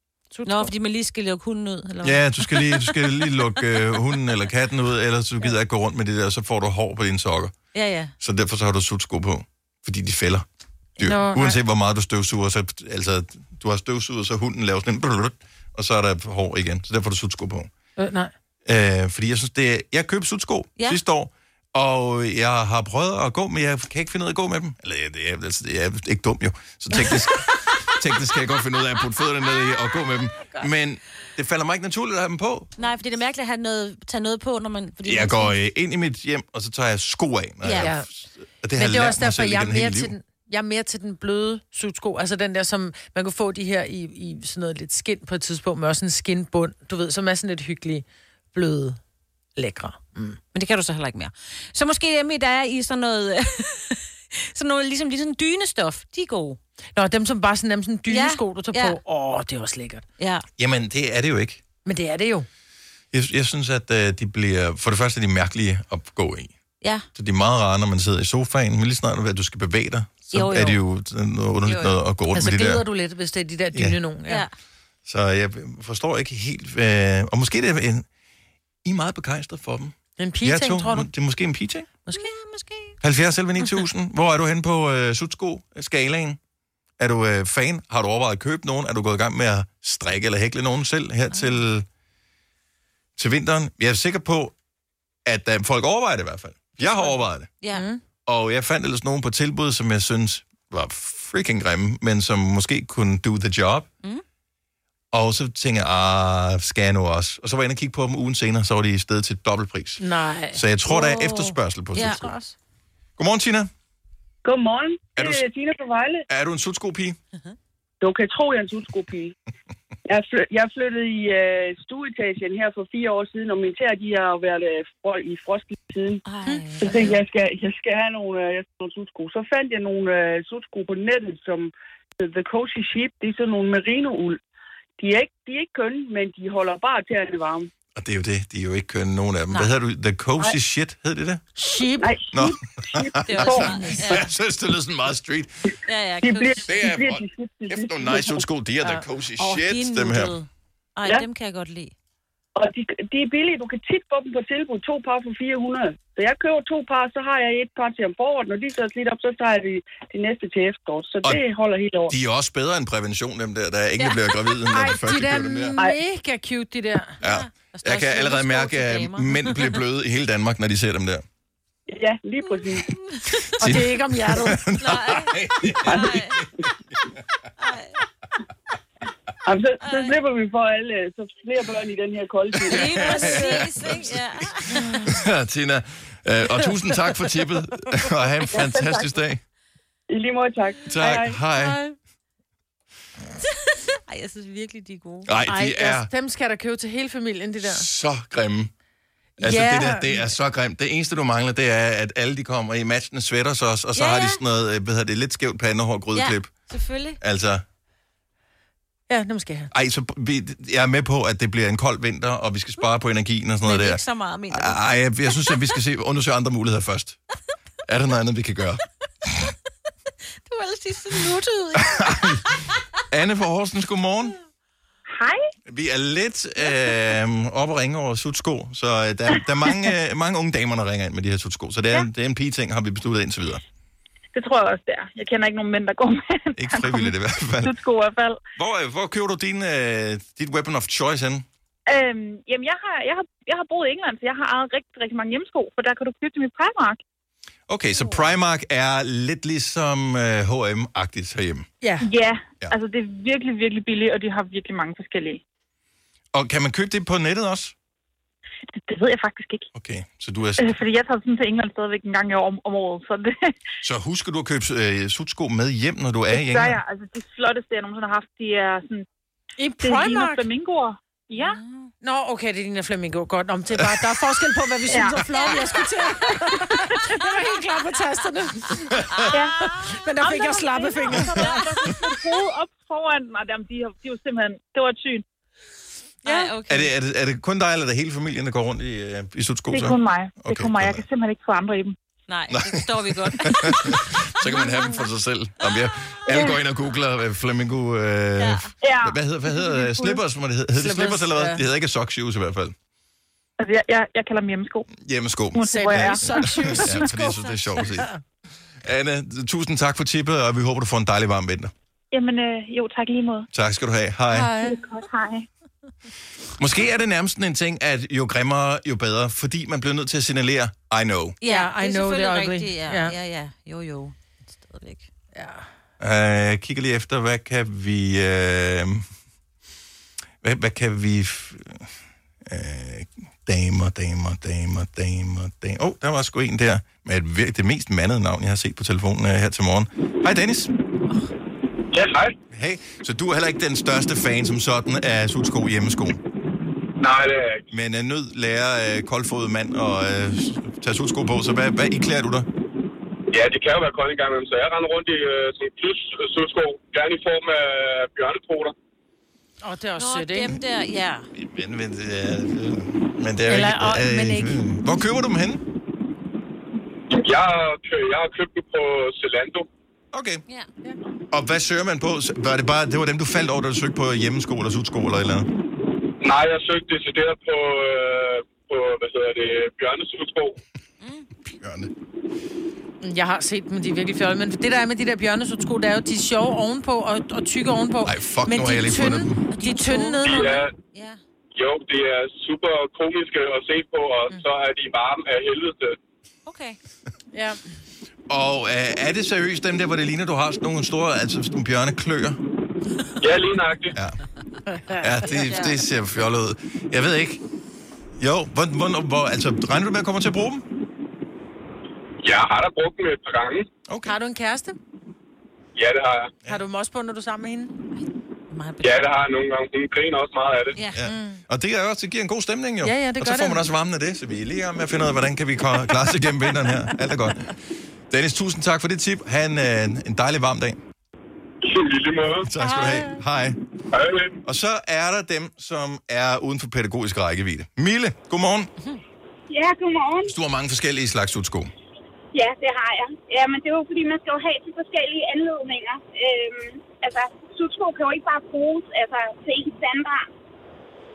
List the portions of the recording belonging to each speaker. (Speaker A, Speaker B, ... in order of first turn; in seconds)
Speaker A: 0.3-0.7, 11.0-11.6, 18.0-18.3, 37.8-38.0, 38.8-49.0, 49.6-50.4, 57.0-60.0, 61.8-62.5, 72.3-74.4, 80.2-81.1, 82.0-82.3, 97.7-98.0, 110.0-111.4, 112.0-112.5, 126.5-127.1, 141.6-142.1, 143.4-144.2, 164.7-167.2, 167.7-169.5, 173.4-174.6, 184.7-185.0, 195.5-197.8, 199.4-200.3, 209.1-209.7, 269.6-270.4, 272.0-281.7, 286.2-286.5, 300.8-301.6, 305.6-308.1, 314.3-314.8, 321.4-323.1, 325.3-325.6, 359.6-360.5, 363.5-364.6, 383.0-390.5, 397.3-397.6, 404.7-405.4, 414.1-414.8, 416.5-417.7, 421.0-421.4, 422.8-423.6, 432.6-433.2
Speaker B: 0.4-3.3, 7.7-8.1, 32.8-35.5, 37.6-37.9, 50.5-56.6, 58.1-59.0, 60.2-60.4, 70.3-70.8, 71.7-71.9, 82.1-83.0, 96.9-97.9, 111.0-111.3, 111.9-112.3, 126.2-127.2, 143.2-144.3, 145.8-146.9, 149.4-151.9, 167.2-167.5, 174.8-176.4, 177.6-177.9, 179.8-180.2, 182.7-185.1, 191.6-191.9, 193.5-195.3, 203.9-204.4, 206.1-207.2, 213.6-215.6, 220.5-222.6, 286.2-286.9, 292.3-294.0, 298.4-298.7, 321.4-325.1, 360.0-361.3, 381.0-381.3, 389.5-391.2, 396.4-396.8, 405.4-405.8, 417.9-418.9, 420.8-421.0
Speaker C: 2.0-7.5, 8.2-10.4, 11.0-17.7, 18.6-32.7, 35.0-40.1, 60.6-61.6, 63.1-66.5, 67.1-72.8, 75.0-78.0, 78.8-81.9, 83.0-86.4, 87.0-91.8, 93.2-94.5, 95.2-97.5, 98.2-103.9, 105.1-110.0, 110.5-112.3, 113.2-113.7, 115.2-115.4, 116.3-117.2, 137.9-141.4, 142.3-145.5, 146.7-150.3, 162.1-165.8, 167.2-171.2, 173.6-176.7, 182.7-184.4, 185.1-189.4, 190.9-191.8, 195.2-196.1, 197.6-198.7, 199.4-206.5, 207.2-207.6, 209.7-217.2, 217.9-219.3, 221.8-222.4, 223.1-224.3, 225.7-233.6, 236.6-237.8, 238.6-241.4, 247.7-251.7, 256.3-257.7, 259.7-260.8, 263.8-266.8, 286.7-291.0, 292.5-302.7, 304.9-308.1, 308.8-311.7, 313.5-314.5, 316.6-321.4, 326.0-329.0, 330.4-331.9, 332.4-340.7, 342.5-346.2, 347.7-352.5, 361.4-365.6, 370.1-370.4, 371.3-375.5, 381.4-381.9, 388.0-389.4, 398.3-402.4, 405.0-407.4, 408.2-410.6, 413.9-414.2, 420.9-427.5, 428.1-430.8, 432.4-433.6, 434.4-438.7, 440.2-441.7
Speaker D: 114.4-116.2, 118.0-119.3, 120.0-126.2, 126.8-134.4, 135.0-137.7, 142.0-143.7, 146.2-148.4, 152.6-162.1, 171.9-172.9, 179.4-183.0, 188.6-189.1, 190.1-191.4
Speaker E: 225.1-225.4, 234.3-238.4, 241.8-247.0, 252.0-255.4, 258.9-259.7, 260.6-263.5, 266.3-269.1, 269.8-271.6, 274.9-275.2, 279.3-279.6, 280.2-285.2, 289.7-291.9, 298.8-299.1, 303.6-304.9, 305.5-306.8, 312.1-313.5, 314.6-315.4
Speaker F: 341.9-342.3, 347.0-347.6, 353.3-358.7, 367.1-369.7, 376.2-380.6, 390.2-390.7, 391.5-396.0, 403.2-403.9, 412.2-413.7, 415.8-416.4, 418.8-420.8, 431.6-432.4, 433.9-434.4
Speaker G: 439.5-440.3, 442.3-450.2